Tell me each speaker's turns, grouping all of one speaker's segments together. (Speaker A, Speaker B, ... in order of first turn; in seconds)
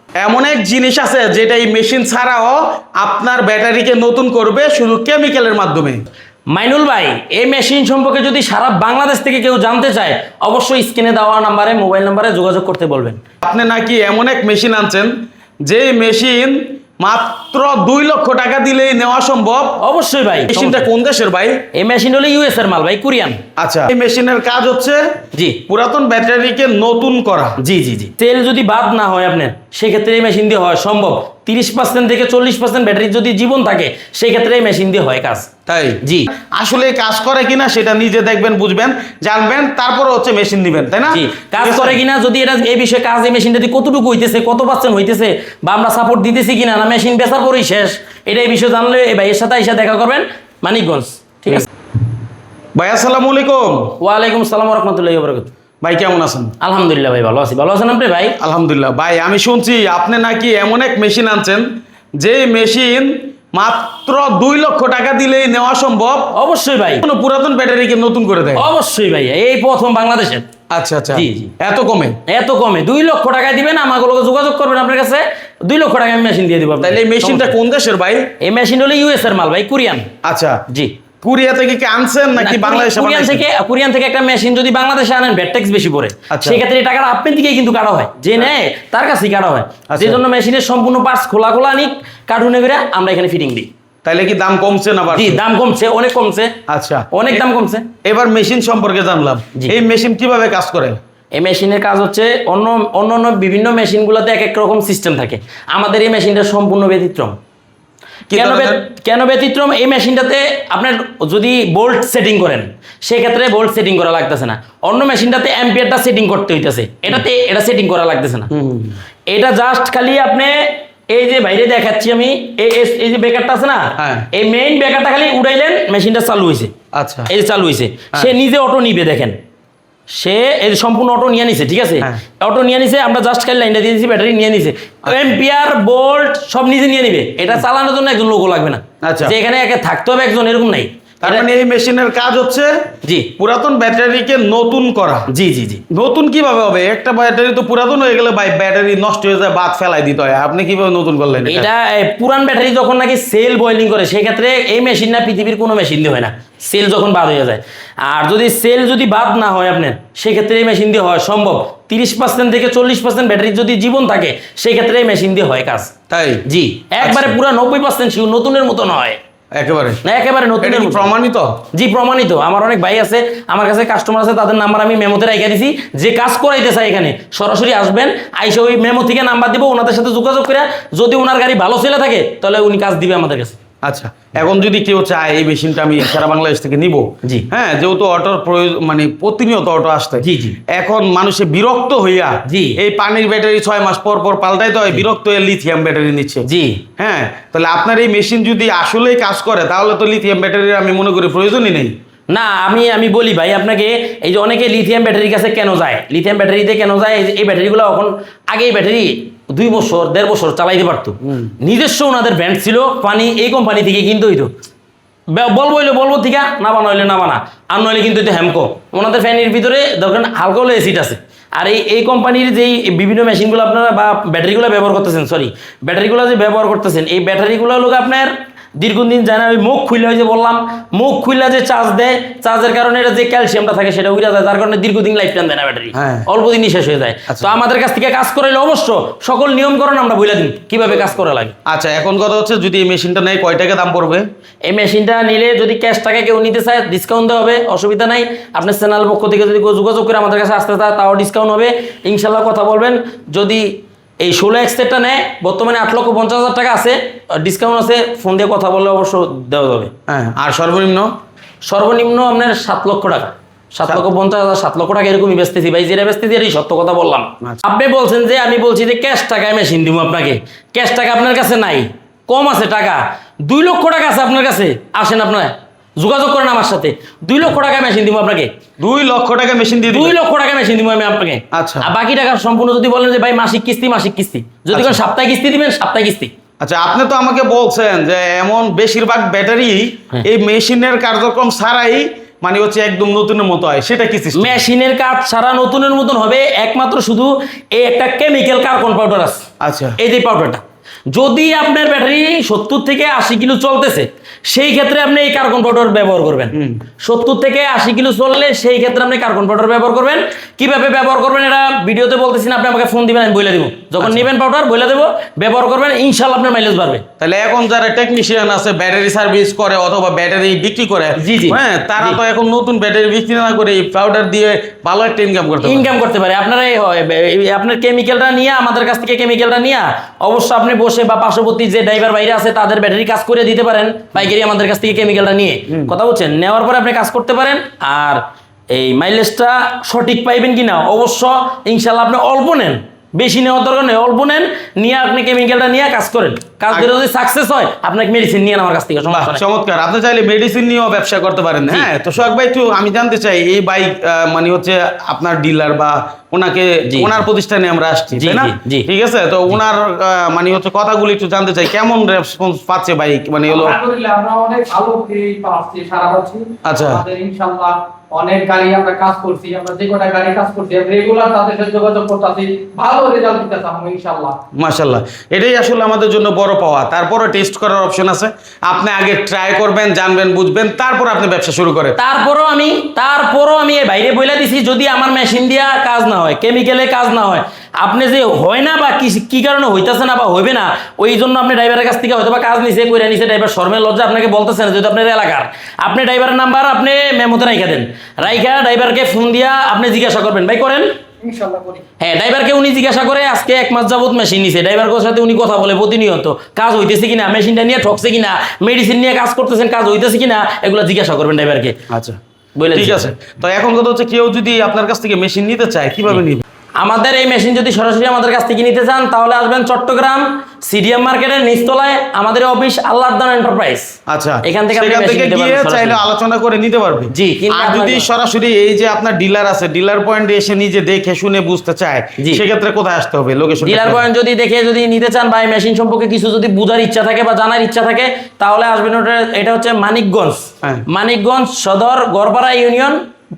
Speaker A: 0.2-6.0, 13.4-15.1, 15.7-19.8, 20.5-21.6, 23.6-25.2, 25.7-27.6, 35.7-42.0, 52.8-54.0, 55.8-56.5, 58.4-61.7, 62.2-66.3, 67.0-68.7, 70.7-72.2, 76.8-78.3, 80.2-80.6, 81.2-83.4, 86.3-86.6, 89.9-90.2, 94.0-95.4, 96.7-97.3, 98.0-101.0, 108.3-108.8, 118.5-119.0, 124.0-124.3, 126.9-127.3, 139.0-139.3, 141.2-142.8, 143.4-145.3, 145.9-151.7, 166.1-166.4, 167.0-167.4, 169.6-170.0, 170.6-171.6, 183.8-196.5, 197.0-201.9, 235.9-236.3, 241.7-244.2, 260.1-261.1, 278.8-280.1, 281.5-281.9, 284.7-285.0, 286.6-294.6, 299.6-300.0, 306.5-306.8, 317.2-325.9, 349.1-363.8, 366.6-367.0, 374.6-382.0, 411.9-412.2, 412.8-416.4, 424.1-434.0
Speaker B: 6.5-13.2, 19.8-20.9, 21.7-23.4, 25.3-25.6, 27.6-35.5, 36.0-36.3, 41.1-51.7, 54.0-55.5, 56.6-58.4, 66.3-67.0, 68.5-70.5, 71.1-71.5, 72.3-77.5, 78.4-80.1, 80.7-80.9, 82.4-93.7, 95.1-96.5, 97.1-97.9, 101.3-107.4, 108.3-118.5, 119.3-126.7, 127.3-129.4, 130.1-141.5, 143.0-143.3, 145.3-145.8, 151.5-165.9, 166.4-169.2, 170.0-171.1, 171.7-183.6, 190.2-190.6, 192.5-192.8, 196.4-196.8, 202.3-214.5, 215.3-241.6, 244.7-259.9, 261.6-278.5, 279.9-286.3, 294.3-299.4, 300.0-317.0, 321.2-322.2, 325.6-349.4, 356.9-357.3, 358.1-358.9, 382.0-400.9, 402.0-411.8, 412.6-413.1, 416.8-426.0, 427.1-428.1, 432.2-432.4, 433.6-443.0
Speaker C: 363.5-374.4, 401.2-401.8